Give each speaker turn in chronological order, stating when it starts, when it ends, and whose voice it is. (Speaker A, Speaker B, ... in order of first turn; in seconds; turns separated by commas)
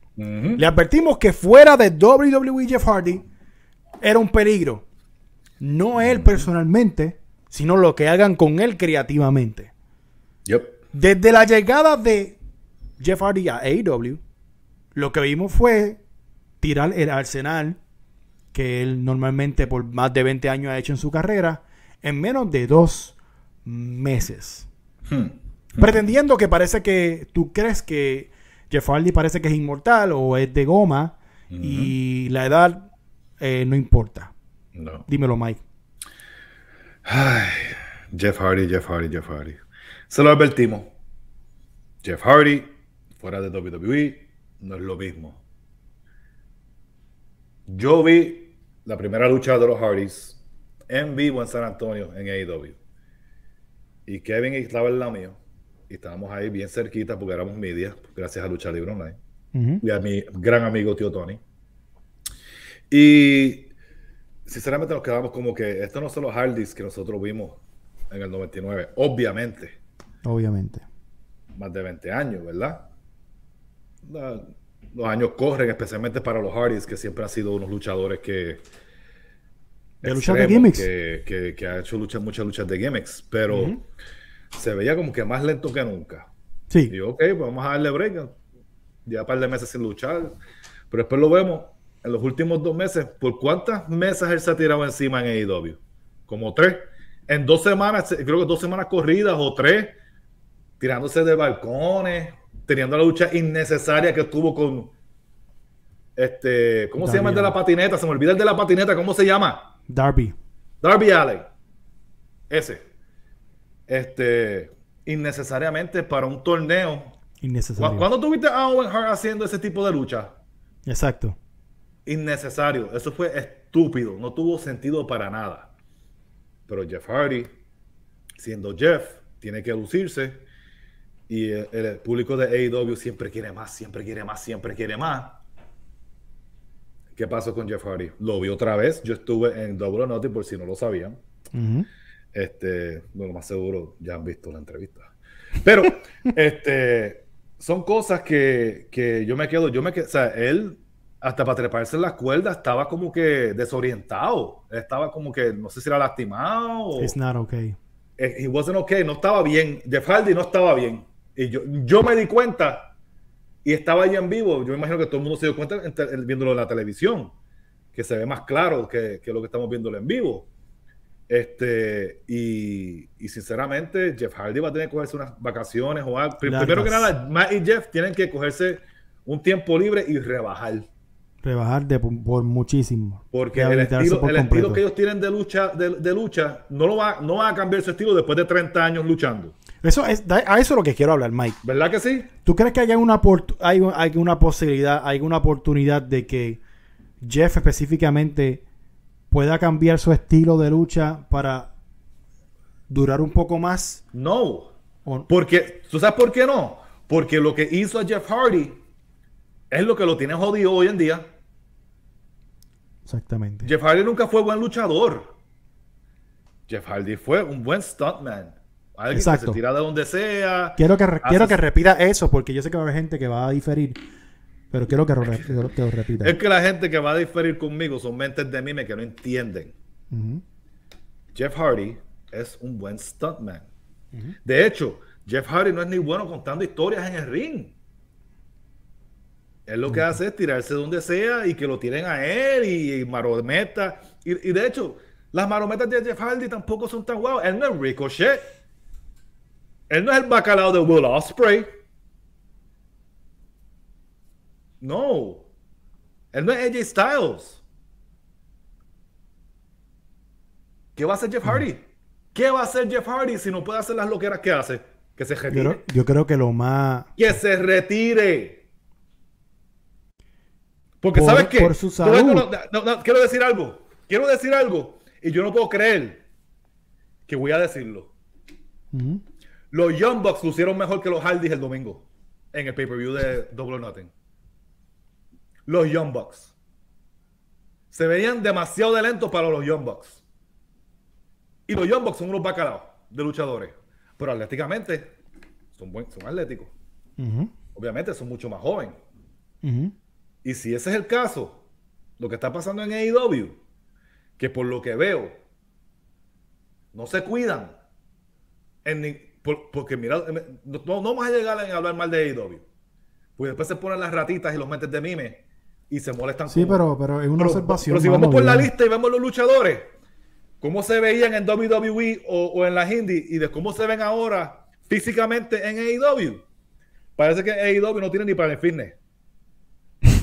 Speaker A: 0.2-0.6, Speaker B: 0.6-3.2, Speaker B: 4.0-4.8, Speaker B: 5.6-9.7, Speaker A: 6.0-6.5, Speaker A: 10.4-10.8, Speaker B: 10.9-12.4, Speaker B: 13.0-14.2, Speaker B: 14.9-16.0, Speaker B: 16.6-17.8, Speaker B: 18.5-24.7, Speaker A: 25.1-26.0, Speaker B: 25.8-32.9, Speaker A: 31.5-31.9, Speaker B: 33.4-34.3, Speaker A: 34.7-35.1, Speaker B: 35.1-35.6, Speaker A: 37.0-40.9, Speaker A: 42.0-45.4, Speaker A: 47.7-52.8, Speaker A: 54.1-55.4, Speaker A: 55.9-59.2, Speaker B: 59.5-59.8, Speaker A: 59.8-61.4, Speaker A: 62.9-63.7, Speaker A: 64.5-69.8, Speaker B: 70.2-70.8, Speaker A: 71.5-72.9, Speaker A: 74.0-78.6, Speaker A: 80.0-83.7, Speaker B: 80.0-80.9, Speaker B: 83.5-83.8, Speaker A: 84.5-86.3, Speaker A: 86.9-88.4, Speaker A: 89.0-90.4, Speaker A: 90.9-100.0, Speaker A: 100.8-104.9, Speaker A: 106.2-109.7, Speaker B: 107.0-107.6, Speaker B: 109.9-110.4, Speaker A: 110.8-111.5, Speaker A: 112.5-112.8, Speaker A: 113.9-117.2, Speaker B: 117.4-118.1, Speaker A: 117.8-120.3, Speaker B: 120.8-121.4, Speaker A: 122.0-125.7, Speaker A: 126.7-127.5, Speaker A: 128.4-130.4, Speaker A: 131.3-135.4, Speaker A: 137.1-141.2, Speaker B: 141.5-141.9, Speaker A: 142.3-145.1, Speaker A: 145.6-157.1, Speaker B: 157.0-157.8, Speaker A: 158.2-162.9, Speaker A: 163.6-167.3, Speaker A: 167.9-170.5, Speaker A: 171.3-180.9, Speaker B: 176.4-177.1, Speaker B: 181.4-184.8, Speaker A: 183.3-189.6, Speaker B: 189.8-191.6, Speaker A: 191.6-192.3, Speaker B: 192.4-196.6, Speaker B: 197.2-198.6, Speaker B: 199.3-201.7, Speaker B: 202.9-204.0, Speaker A: 204.1-204.7, Speaker A: 205.3-208.7, Speaker A: 209.7-211.2, Speaker B: 213.1-213.7, Speaker A: 213.6-215.3, Speaker A: 216.7-221.6, Speaker B: 219.1-219.6, Speaker B: 220.8-224.0, Speaker B: 224.7-226.3, Speaker A: 225.2-225.5, Speaker A: 226.2-229.7, Speaker B: 230.1-230.4, Speaker A: 231.3-233.7, Speaker A: 234.4-237.8, Speaker A: 239.7-248.4, Speaker B: 239.9-240.2, Speaker A: 249.9-251.7, Speaker A: 254.8-255.4, Speaker A: 256.3-257.6, Speaker A: 260.9-261.8, Speaker A: 262.3-265.8, Speaker B: 265.5-267.1, Speaker A: 267.2-268.6, Speaker A: 271.0-276.2, Speaker B: 271.1-272.5, Speaker A: 277.3-278.1, Speaker B: 278.9-279.2, Speaker A: 279.7-284.1, Speaker A: 285.6-286.5, Speaker A: 287.9-290.2, Speaker A: 291.7-295.1, Speaker A: 295.7-296.7, Speaker B: 297.2-297.5, Speaker A: 297.7-298.9, Speaker B: 299.6-299.9, Speaker A: 300.4-301.6, Speaker A: 302.2-303.6, Speaker A: 304.4-305.3, Speaker A: 306.9-307.8, Speaker A: 308.8-312.6, Speaker A: 313.4-316.8, Speaker B: 316.5-318.7, Speaker A: 317.4-319.9, Speaker A: 320.6-326.4, Speaker A: 327.2-329.0